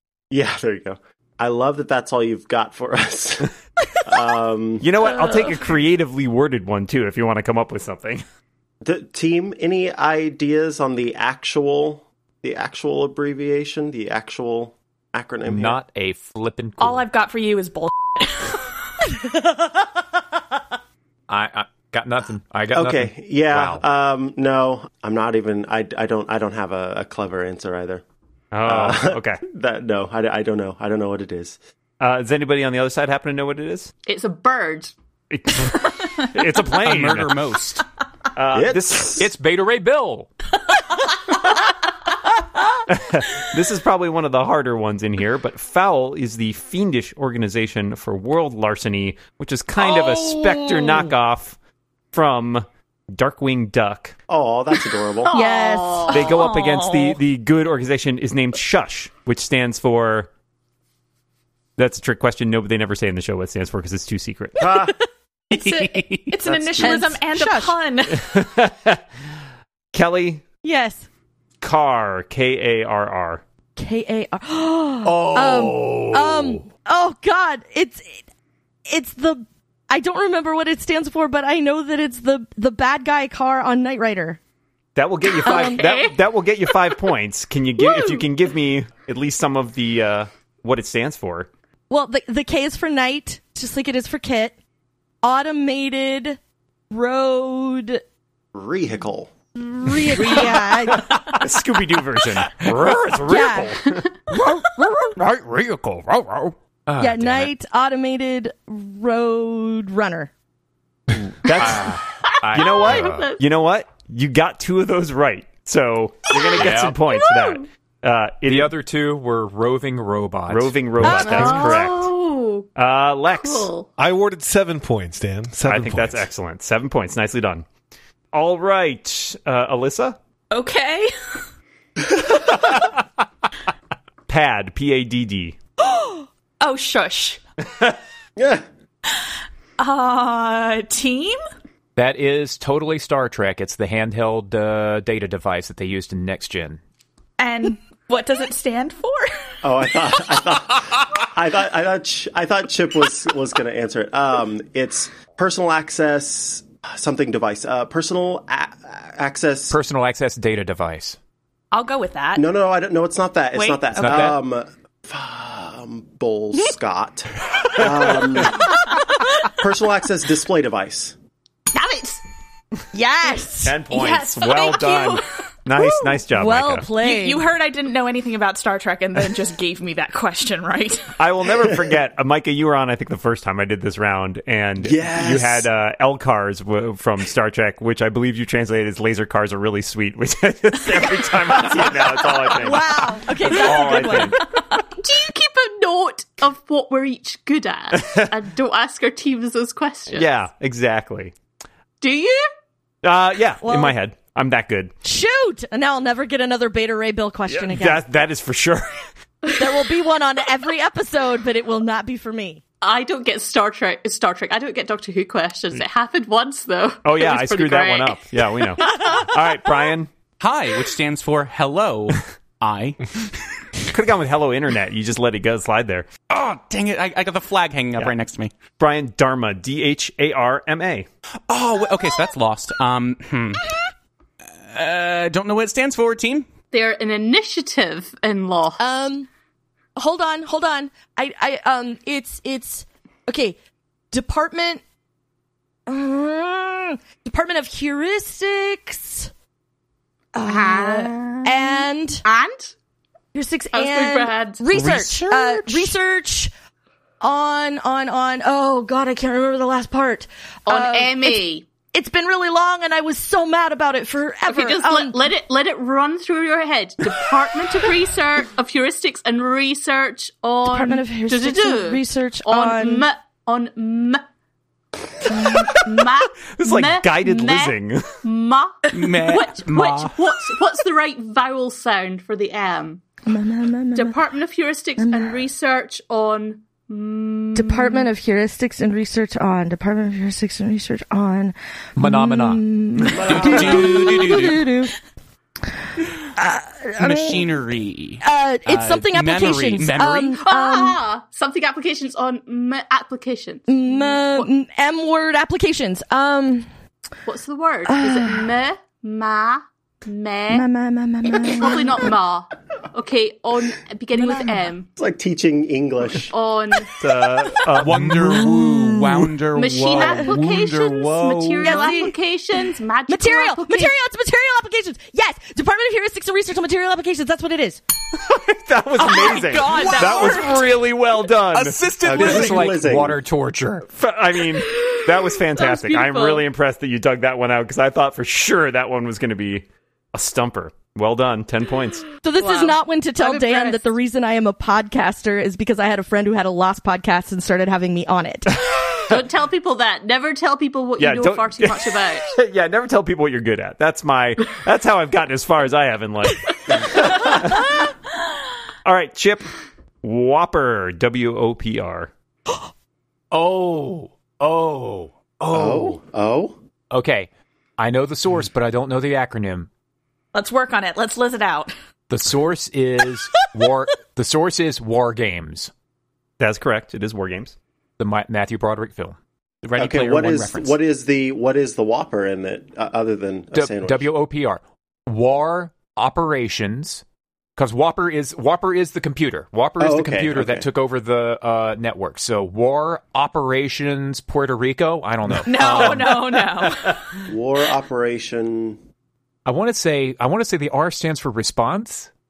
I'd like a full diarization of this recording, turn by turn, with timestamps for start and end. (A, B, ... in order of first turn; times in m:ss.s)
0:00.3-0:04.9 A
0:04.8-0:08.2 B
0:08.8-0:15.8 A
0:15.5-0:17.0 C
0:16.8-0:18.6 D
0:21.3-0:23.8 C
0:22.7-0:28.0 A
0:28.5-0:29.4 B
0:28.7-0:31.6 A
0:32.0-0:33.9 B
0:34.0-0:34.9 E
0:35.3-0:37.3 B
0:36.7-0:37.8 F
0:38.4-0:39.2 B
0:38.5-0:39.3 A
0:39.2-0:40.3 C
0:42.9-0:51.6 B
0:52.1-0:54.2 B
0:54.3-0:55.3 A
0:55.2-0:56.3 E
0:55.3-0:56.1 G
0:56.1-1:00.3 B
0:56.2-0:57.2 D
1:01.8-1:04.7 B
1:04.6-1:05.0 A
1:05.5-1:06.4 F
1:05.5-1:08.2 D
1:06.4-1:07.0 A
1:06.8-1:07.8 G
1:08.2-1:09.0 B
1:09.9-1:10.4 B
1:10.6-1:11.1 G
1:11.6-1:13.4 B
1:13.8-1:18.2 G
1:18.9-1:24.4 G
1:25.0-1:31.5 B
1:25.2-1:26.2 E
1:25.4-1:25.8 G
1:27.8-1:28.2 E
1:31.9-1:34.6 G
1:35.2-1:36.4 G
1:36.9-1:38.0 G
1:38.5-1:39.3 A
1:39.6-1:41.1 G
1:41.0-1:44.1 B
1:43.3-1:43.8 G
1:44.6-1:45.1 C
1:46.0-1:46.5 F
1:46.9-1:47.5 C
1:47.0-1:50.3 G
1:51.1-1:52.0 B
1:51.5-1:53.4 C
1:52.3-1:53.4 E
1:52.5-1:58.7 B
1:56.5-1:57.0 C
1:57.1-1:57.6 E
1:58.5-2:01.6 C
2:00.5-2:02.1 B
2:01.0-2:01.8 G
2:01.1-2:02.7 E
2:02.8-2:03.7 B
2:03.4-2:03.9 E
2:04.0-2:06.2 H
2:05.6-2:07.6 B
2:08.3-2:10.2 B
2:10.5-2:11.1 D
2:14.3-2:15.6 B
2:16.6-2:17.4 D
2:18.4-2:18.6 A
2:19.8-2:21.4 D
2:22.0-2:26.8 C
2:27.4-2:29.3 D
2:29.6-2:39.8 A
2:39.7-2:41.2 C
2:41.7-2:42.4 D
2:42.4-2:48.8 A
2:43.5-2:44.3 D
2:44.0-2:44.4 C
2:49.5-2:51.2 A
2:51.7-2:52.2 E
2:52.9-2:53.8 G
2:53.6-2:56.9 B
2:53.9-2:55.3 D
2:55.8-2:57.4 G
2:57.0-3:01.1 D
3:01.2-3:14.4 B
3:04.8-3:05.7 A
3:12.6-3:14.4 G
3:15.0-3:20.4 E
3:17.9-3:18.3 B
3:20.1-3:21.3 B
3:22.0-3:22.5 E
3:23.0-3:24.9 B
3:23.6-3:24.0 G
3:25.0-3:28.0 G
3:27.5-3:29.1 B
3:29.6-3:32.6 G
3:32.8-3:38.2 E
3:37.0-3:40.1 B
3:38.8-3:39.2 E
3:40.4-3:43.4 F
3:43.9-3:46.1 B
3:46.3-3:48.5 F
3:48.8-3:51.1 B
3:51.5-3:53.7 F
3:54.6-3:56.5 F
3:56.7-3:58.9 E
3:58.8-3:59.3 G
4:00.0-4:03.6 G
4:04.1-4:04.8 G
4:05.9-4:09.3 G
4:10.4-4:12.3 G
4:10.4-4:12.7 E
4:13.3-4:16.5 G
4:13.7-4:14.6 E
4:14.7-4:15.9 F
4:14.8-4:15.1 C
4:17.2-4:25.2 G
4:20.7-4:21.7 E
4:24.5-4:34.2 E
4:30.6-4:33.0 G
4:35.2-4:43.0 E
4:36.5-4:38.1 B
4:38.9-4:40.2 F
4:43.3-4:44.2 G
4:44.0-4:48.1 E
4:45.0-4:45.4 G
4:47.6-4:54.9 G
4:52.0-4:52.7 C
4:53.0-4:53.3 B
4:53.2-4:54.1 A
4:53.2-4:54.7 F
4:56.4-4:57.5 G
4:57.0-5:00.4 F
4:58.2-5:01.0 G
5:00.4-5:04.5 E
5:03.7-5:06.7 G
5:07.3-5:10.7 E
5:07.8-5:08.5 G
5:10.5-5:12.0 G
5:11.3-5:14.9 E
5:14.2-5:14.5 G
5:15.0-5:16.3 A
5:16.3-5:16.9 E
5:17.0-5:18.6 B
5:17.8-5:21.8 F
5:19.5-5:24.0 E
5:21.6-5:22.1 G
5:23.1-5:27.8 G
5:28.1-5:31.8 B
5:29.0-5:30.6 D
5:29.2-5:30.8 F
5:31.5-5:32.7 F
5:32.0-5:33.2 A
5:32.0-5:33.9 C
5:33.9-5:42.1 B
5:35.5-5:36.5 E
5:42.2-5:48.6 G
5:42.4-5:43.9 E
5:49.1-5:52.3 E
5:51.0-5:57.6 B
5:58.8-5:59.5 B
6:00.0-6:02.1 B
6:03.3-6:06.0 C
6:05.5-6:06.6 A
6:06.9-6:09.7 C
6:10.3-6:11.7 D
6:12.1-6:15.7 C
6:16.4-6:17.6 B
6:18.0-6:19.2 C
6:19.6-6:20.8 F
6:19.8-6:24.1 A
6:23.5-6:27.0 C
6:27.6-6:36.5 C
6:29.8-6:30.7 A
6:35.4-6:37.0 D
6:37.3-6:38.8 A
6:39.5-6:42.1 C